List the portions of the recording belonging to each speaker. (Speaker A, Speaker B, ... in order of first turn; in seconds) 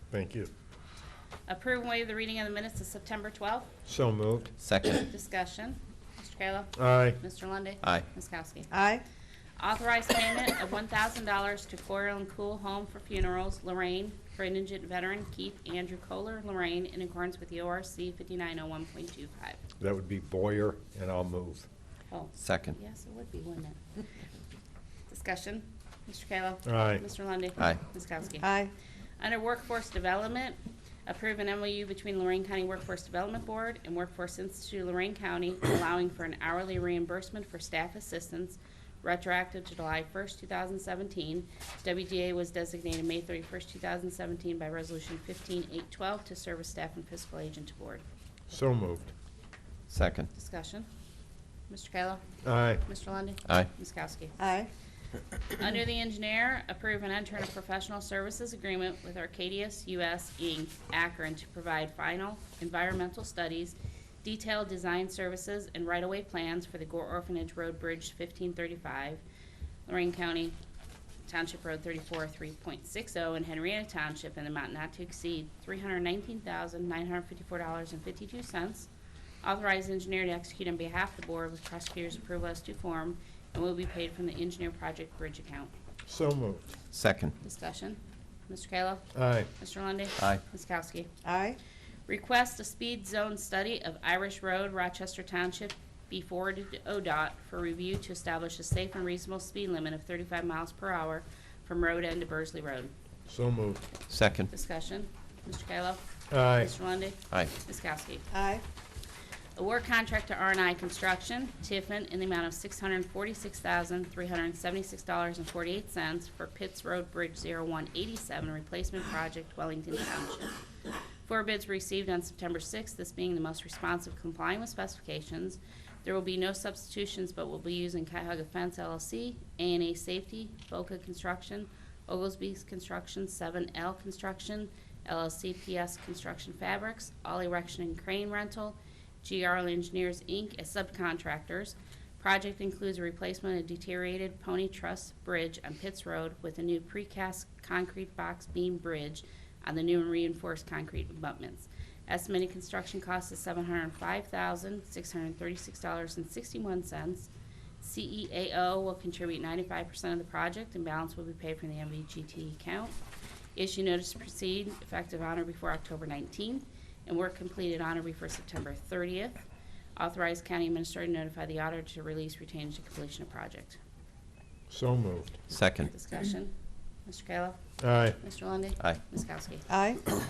Speaker A: 0.1-0.5, 3.9-4.5, 6.8-7.2, 19.8-21.7, 26.7-27.0, 48.5-49.1, 52.4-52.9, 86.1-86.7, 89.1-89.5, 103.3-103.8, 106.3-106.7, 174.7-175.4, 177.8-178.2
Speaker B: 1.5-3.7, 4.8-8.7, 9.6-19.6, 22.1-23.8, 25.1-28.5, 29.2-48.0, 50.3-50.9, 51.7-54.4, 55.5-69.2, 69.9-70.5, 71.3-78.9, 79.4-85.7, 87.4-91.1, 92.1-102.9, 104.5-108.3, 109.6-120.6, 121.3-162.9, 163.6-169.4, 170.0-173.8, 175.8-176.5, 177.1-179.7
Speaker C: 4.6-5.0, 22.4-22.8, 49.9-50.3, 86.9-87.3, 104.1-104.5, 175.5-175.9
Speaker D: 8.7-9.0, 28.4-28.7, 54.4-54.7, 91.2-91.6, 108.3-108.6, 179.7-180.0